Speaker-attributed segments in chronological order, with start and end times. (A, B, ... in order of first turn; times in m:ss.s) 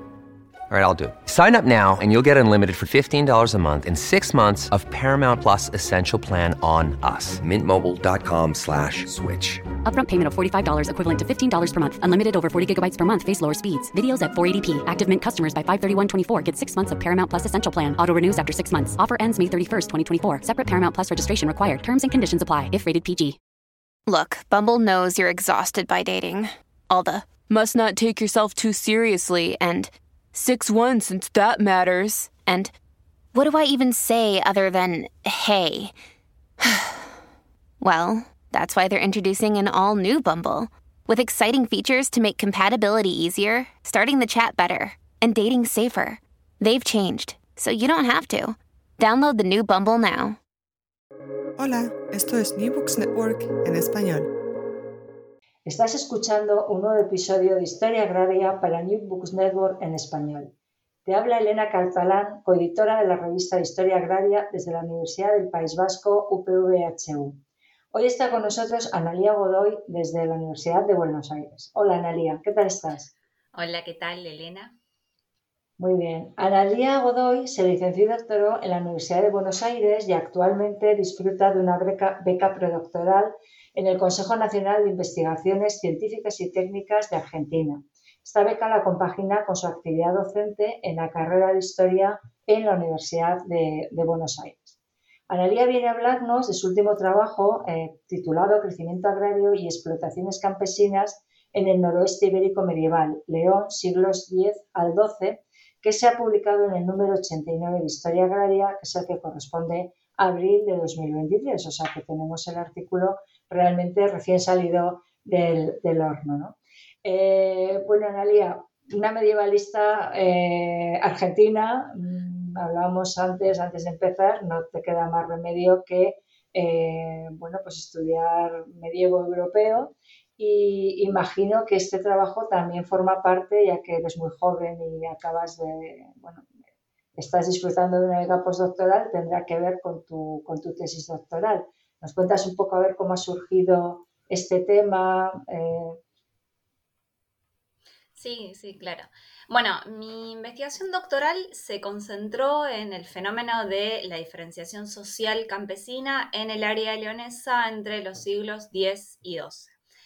0:00.7-0:09.7 A
0:09.8-0:23.4 B
0:24.1-0:32.8 C
0:33.3-0:35.9 C
0:36.6-0:37.1 C
0:37.8-0:50.4 C
0:51.6-0:54.3 D
0:55.6-1:00.5 E
1:01.0-1:07.4 E
1:07.9-1:13.1 E
1:13.5-1:14.8 F
1:15.8-1:34.8 E
1:35.3-2:16.5 E
2:17.2-2:26.0 E
2:28.2-2:39.8 F